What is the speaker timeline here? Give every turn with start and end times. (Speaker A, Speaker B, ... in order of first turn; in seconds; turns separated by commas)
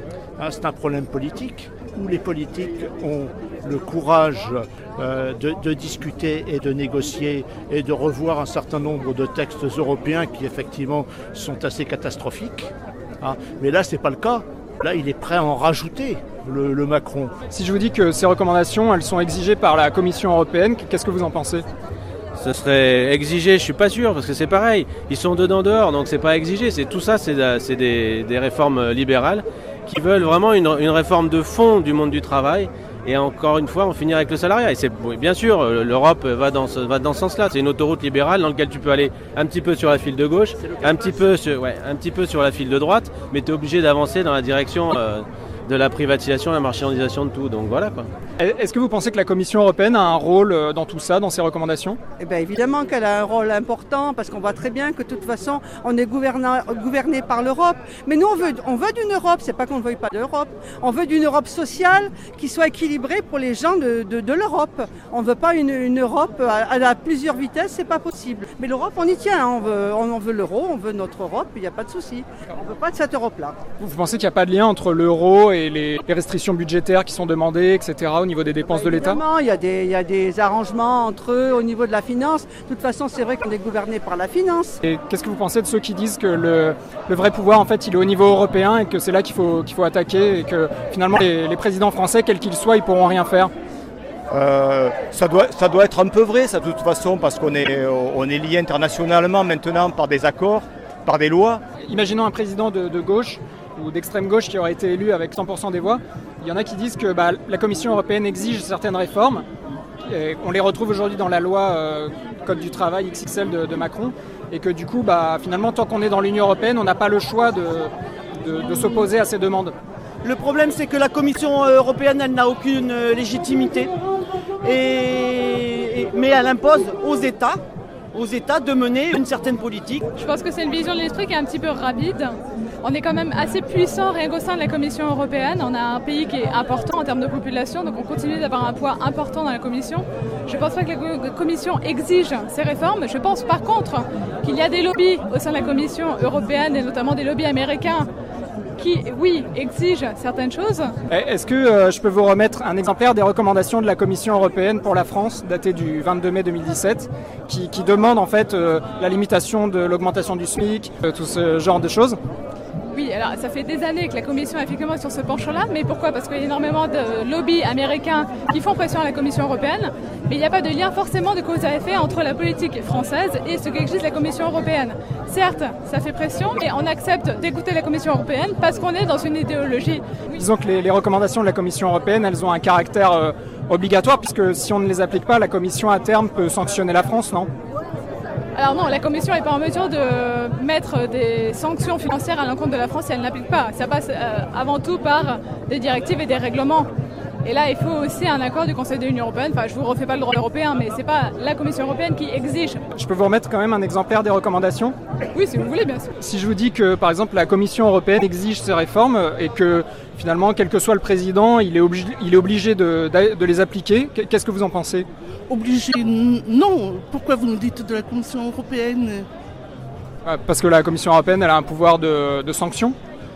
Speaker A: 0.4-17.4, Speaker B: 17.5-21.7, Speaker C: 22.3-48.1, Speaker B: 48.4-52.0, Speaker D: 52.2-73.6, Speaker B: 73.8-79.2, Speaker D: 78.6-84.8, Speaker B: 84.8-93.5, Speaker E: 94.3-101.6, Speaker B: 101.8-109.5, Speaker B: 110.0-119.8, Speaker F: 120.2-123.9, Speaker F: 124.6-127.6, Speaker F: 128.1-130.0, Speaker G: 130.2-148.1, Speaker G: 148.8-150.9, Speaker B: 151.1-162.2, Speaker G: 162.9-180.0, Speaker B: 180.3-187.5, Speaker G: 188.5-196.9, Speaker G: 197.4-202.8, Speaker B: 202.9-205.0, Speaker G: 205.3-206.1, Speaker B: 206.2-215.1, Speaker H: 215.5-219.3, Speaker B: 220.2-223.0